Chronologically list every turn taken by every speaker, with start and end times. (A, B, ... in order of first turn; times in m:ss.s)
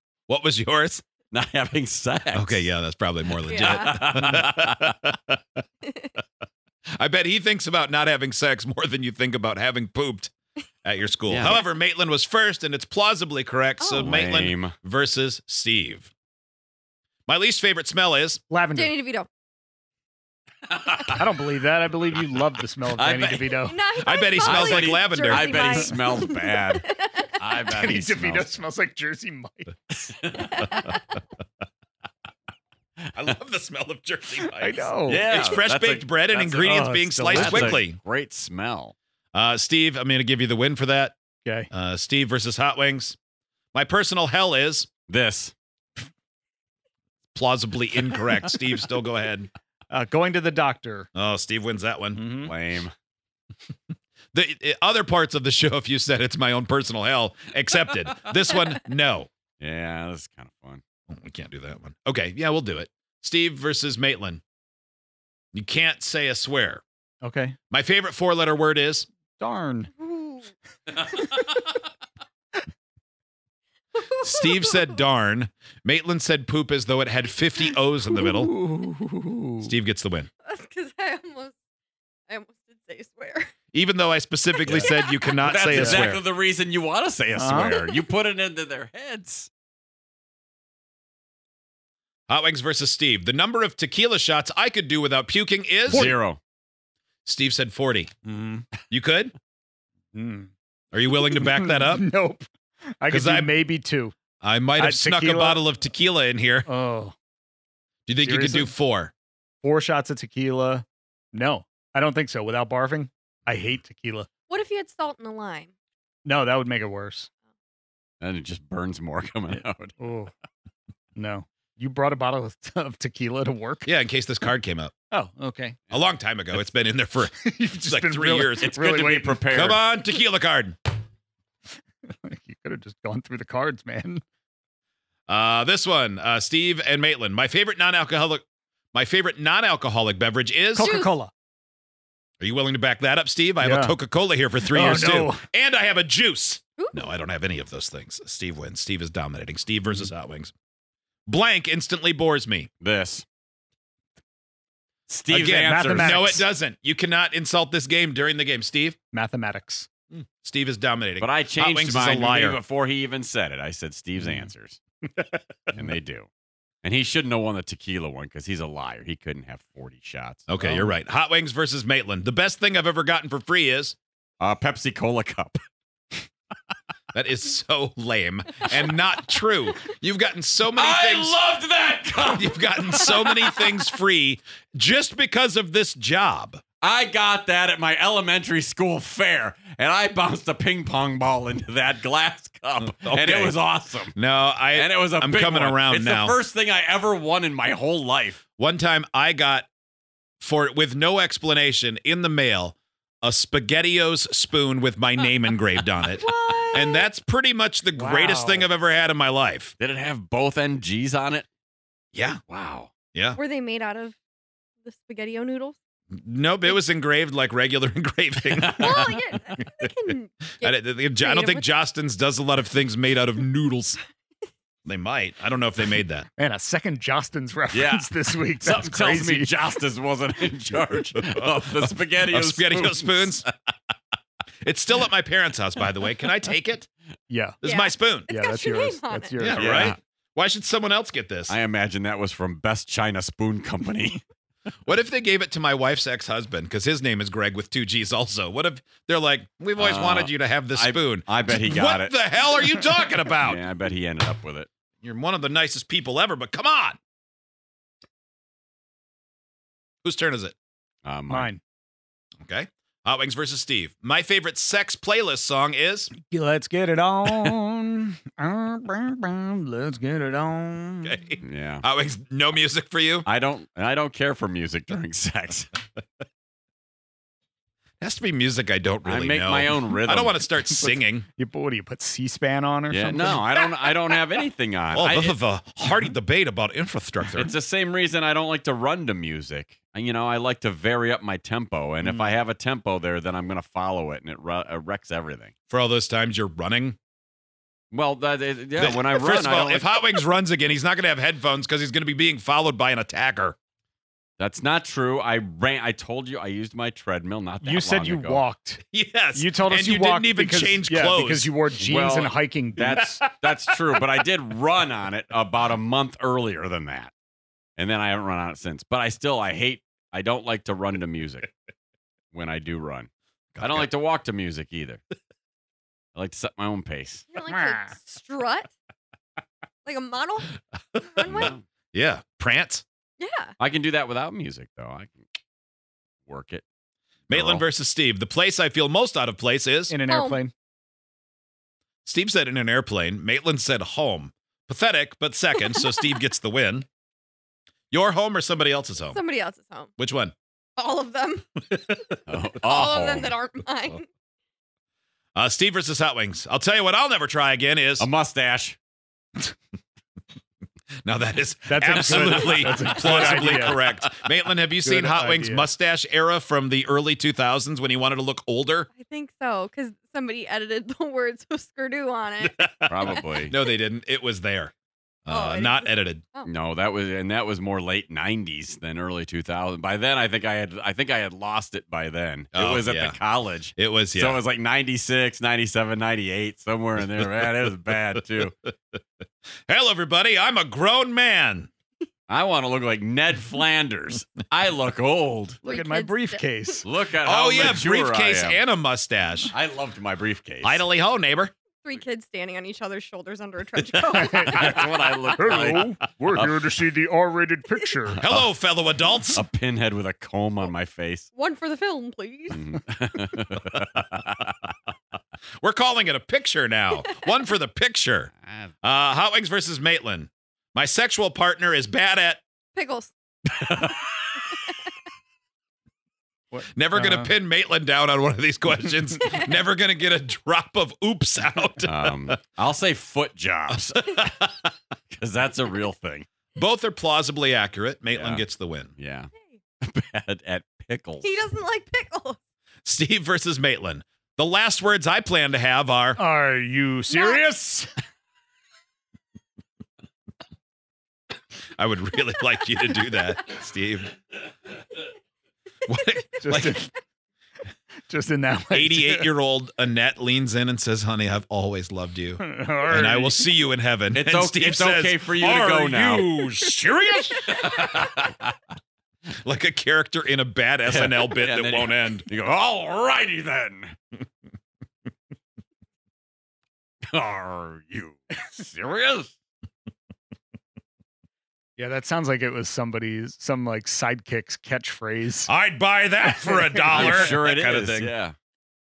0:00.3-0:01.0 A
0:01.3-0:02.7 B
0:02.3-0:05.4 A
0:03.4-0:04.1 C
0:03.6-0:04.9 B
0:05.8-0:06.1 C
0:07.0-0:10.3 A
0:10.8-0:16.1 A
0:11.3-0:11.6 B
0:13.8-0:14.1 C
0:14.0-0:14.8 B
0:17.3-0:18.4 A
0:18.5-0:19.0 D
0:18.7-0:19.3 C
0:20.7-0:21.2 B
0:21.1-0:23.8 D
0:22.8-0:23.6 B
0:23.6-0:27.4 C
0:24.0-0:25.7 A
0:24.4-0:28.6 B
0:25.7-0:26.2 D
0:27.6-0:30.1 D
0:30.0-0:30.8 B
0:30.4-0:31.2 C
0:33.1-0:38.0 A
0:34.4-0:35.3 D
0:35.1-0:39.0 B
0:36.6-0:37.8 D
0:39.3-0:41.2 A
0:41.7-0:43.2 A
0:43.7-0:44.9 A
0:45.1-0:45.5 B
0:47.3-0:49.5 A
0:49.9-0:51.1 D
0:51.2-0:52.4 A
0:52.1-0:52.5 D
0:52.4-0:52.9 B
0:54.3-0:59.3 A
0:59.6-1:00.8 B
1:01.1-1:04.4 A
1:05.5-1:06.8 A
1:07.2-1:07.6 D
1:07.7-1:09.1 A
1:09.4-1:09.9 D
1:10.0-1:10.5 C
1:11.1-1:11.6 D
1:14.0-1:14.9 C
1:14.2-1:18.5 A
1:18.1-1:19.7 D
1:19.6-1:20.3 A
1:20.4-1:21.6 C
1:22.3-1:23.5 C
1:23.7-1:26.2 A
1:24.6-1:25.4 C
1:25.4-1:29.5 B
1:25.5-1:26.2 D
1:27.4-1:27.8 D
1:32.3-1:36.1 A
1:35.9-1:36.4 B
1:37.2-1:38.1 A
1:38.3-1:38.7 D
1:38.9-1:39.3 A
1:40.1-1:40.5 D
1:40.9-1:42.1 A
1:41.1-1:44.1 D
1:43.1-1:43.5 A
1:44.4-1:46.7 A
1:44.8-1:45.6 D
1:46.7-1:47.2 D
1:48.1-1:49.1 A
1:48.2-1:48.7 D
1:49.6-1:54.3 D
1:54.5-1:55.7 C
1:56.2-1:57.3 D
1:58.2-2:00.0 B
2:00.0-2:00.3 D
2:01.2-2:03.9 D
2:03.8-2:04.9 A
2:05.1-2:05.8 D
2:05.9-2:08.9 A
2:07.2-2:09.5 D
2:08.6-2:09.8 B
2:09.5-2:10.9 A
2:12.0-2:14.2 D
2:15.3-2:20.9 A
2:20.7-2:21.3 D
2:20.8-2:21.1 C
2:22.4-2:30.5 A
2:23.6-2:24.0 D
2:24.6-2:25.4 D
2:26.8-2:27.2 C
2:31.3-2:32.7 A
2:32.8-2:33.2 B
2:35.1-2:36.4 B
2:35.3-2:39.0 A
2:35.5-2:36.4 D
2:39.1-2:39.9 D
2:40.1-2:42.6 A
2:41.2-2:44.8 B
2:45.7-2:46.3 B
2:46.8-2:50.5 B
2:50.5-2:54.0 A
2:50.6-2:50.9 D
2:54.4-2:55.6 B
2:57.1-3:01.4 A
3:00.7-3:03.6 B
3:02.3-3:06.6 A
3:06.8-3:14.2 B
3:12.8-3:13.6 A
3:14.1-3:16.4 A
3:14.7-3:18.4 B
3:18.6-3:19.7 A
3:20.4-3:29.7 A
3:26.2-3:27.1 C
3:27.9-3:28.7 D
3:29.8-3:31.5 B
3:32.1-3:32.4 A
3:32.5-3:32.9 B
3:33.1-3:33.4 A
3:33.4-3:34.2 C
3:34.8-3:35.8 C
3:36.1-3:39.2 A
3:38.6-3:39.1 B
3:38.8-3:41.7 C
3:40.6-3:44.0 A
3:44.9-3:46.3 A
3:46.4-3:49.6 D
3:47.7-3:53.4 B
3:51.3-3:53.5 A
3:54.6-3:56.9 A
3:57.3-3:57.6 D
3:57.6-3:58.3 A
3:57.6-3:59.4 C
3:58.3-4:00.0 D
3:59.4-4:01.6 A
3:59.5-4:00.0 B
4:01.5-4:04.2 B
4:04.9-4:13.6 A
4:09.8-4:14.7 B
4:15.0-4:17.0 A
4:20.0-4:20.6 A
4:21.0-4:21.5 B
4:21.3-4:21.6 D
4:22.4-4:26.1 A
4:26.1-4:31.2 D
4:31.0-4:33.3 A
4:31.4-4:31.8 B
4:33.2-4:35.8 B
4:38.0-4:41.3 A
4:39.0-4:40.5 B
4:40.7-4:43.5 D
4:42.9-4:45.4 B
4:44.9-4:47.5 A
4:47.3-4:55.5 B
4:52.0-4:52.4 D
4:55.7-4:57.0 A
4:57.9-5:00.2 B
4:58.8-5:03.6 A
5:04.4-5:08.4 B
5:07.6-5:08.8 D
5:08.9-5:11.5 A
5:09.3-5:13.2 D
5:11.8-5:17.1 B
5:13.2-5:13.8 A
5:17.8-5:21.5 B
5:22.3-5:23.1 B
5:23.6-5:23.9 A
5:23.6-5:25.0 B
5:26.2-5:27.3 B
5:27.3-5:28.7 C
5:27.5-5:27.9 D
5:29.8-5:31.5 C
5:31.2-5:31.6 B
5:31.3-5:32.8 A
5:33.2-5:33.5 C
5:33.6-5:35.3 B
5:36.3-5:36.6 B
5:37.3-5:37.7 B
5:37.3-5:40.0 A
5:39.9-5:40.5 D
5:40.0-5:40.4 C
5:42.1-5:46.9 A
5:45.6-5:46.2 C
5:47.9-5:49.2 A
5:49.1-5:49.9 C
5:50.0-5:50.4 A
5:50.8-5:51.7 C
5:51.7-5:52.0 A
5:52.3-5:53.4 B
5:52.6-5:54.1 C
5:55.4-5:58.1 A
5:58.0-5:58.8 B
6:01.0-6:08.9 A
6:01.7-6:03.9 D
6:04.8-6:05.7 D
6:09.0-6:13.2 C
6:12.4-6:14.7 A
6:12.9-6:13.5 B
6:15.3-6:16.2 A
6:15.3-6:16.5 C
6:16.4-6:28.6 B
6:22.5-6:23.2 A
6:23.8-6:24.4 A
6:29.7-6:31.7 A
6:32.3-6:35.6 B
6:35.6-6:36.9 D
6:35.6-6:36.8 C
6:36.8-6:38.6 B
6:37.2-6:39.5 A
6:39.5-6:40.9 B
6:40.6-6:41.5 A
6:41.8-6:44.8 C
6:44.0-6:48.2 D
6:44.5-6:46.8 B
6:48.2-6:48.4 B
6:48.2-6:49.4 A
6:49.3-6:51.3 B
6:51.4-6:52.7 C
6:52.5-6:54.6 B
6:55.6-6:58.3 A
6:58.8-7:02.4 A
7:02.8-7:03.1 C
7:03.6-7:04.2 B
7:04.5-7:04.8 C
7:06.5-7:07.3 D
7:06.6-7:12.4 A
7:09.3-7:09.5 C
7:11.9-7:14.2 B
7:14.0-7:14.7 A
7:15.1-7:16.3 B
7:16.6-7:18.9 A
7:18.1-7:18.4 B
7:19.0-7:21.4 B
7:21.2-7:22.4 C
7:22.8-7:26.2 A
7:26.2-7:27.9 D
7:27.1-7:27.5 C
7:31.8-7:34.2 A
7:35.9-7:36.9 A
7:36.4-7:36.9 D
7:38.1-7:39.3 D
7:38.7-7:47.8 A
7:42.4-7:43.5 D
7:44.1-7:46.3 B
7:47.5-7:48.5 B
7:49.3-7:52.3 A
7:50.9-7:54.0 B
7:57.1-7:59.3 B
8:01.8-8:05.5 D
8:05.4-8:08.1 A
8:06.4-8:07.3 D
8:06.9-8:08.4 B